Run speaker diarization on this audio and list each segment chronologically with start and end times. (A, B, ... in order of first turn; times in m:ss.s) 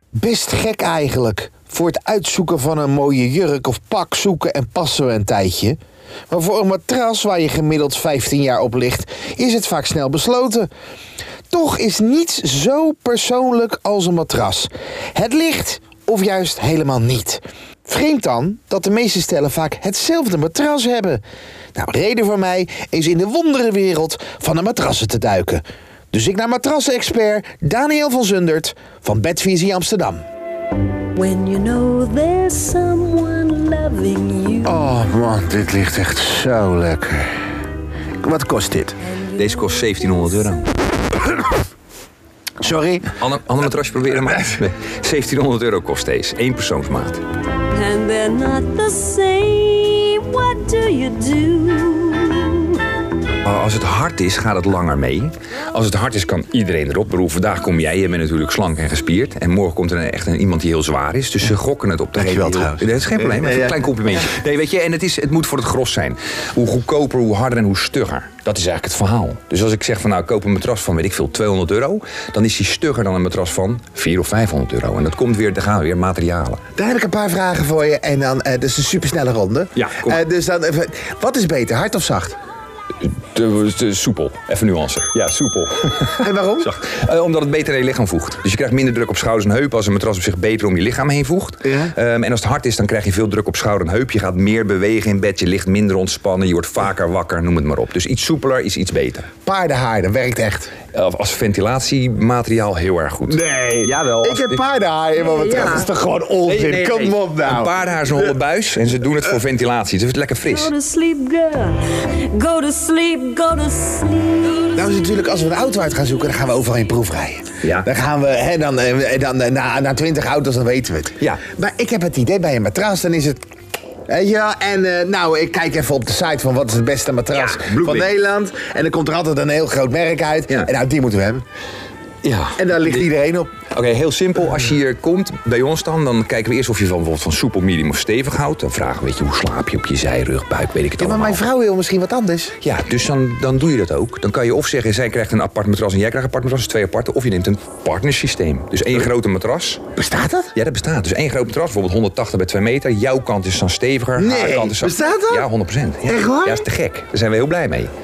0:00.2-0:05.8 A
0:06.3-0:10.7 A
0:11.5-0:21.2 A
0:21.7-0:30.2 A
0:31.1-0:34.7 B
0:34.6-0:37.3 A
0:38.2-0:39.0 A
0:39.3-0:40.7 C
0:42.6-0:43.1 A
0:43.2-0:47.2 C
0:47.7-0:52.8 B
0:53.4-1:16.6 C
1:02.1-1:03.8 A
1:16.8-1:22.4 A
1:19.8-1:20.2 C
1:23.0-1:39.3 C
1:26.2-1:26.7 A
1:31.6-1:31.9 A
1:39.4-1:40.7 A
1:40.9-1:44.6 C
1:43.3-1:47.7 A
1:45.4-1:45.9 C
1:46.5-1:50.7 C
1:50.4-1:54.8 B
1:54.7-2:03.4 A
1:57.6-1:57.9 C
2:04.1-2:11.4 A
2:07.3-2:08.1 C
2:12.2-2:13.1 C
2:12.6-2:13.5 A
2:13.7-2:21.4 C
2:21.0-2:22.6 A
2:22.6-2:29.8 C
2:30.0-2:30.5 A
2:30.5-2:37.9 C
2:34.2-2:35.5 A
2:36.0-2:36.6 A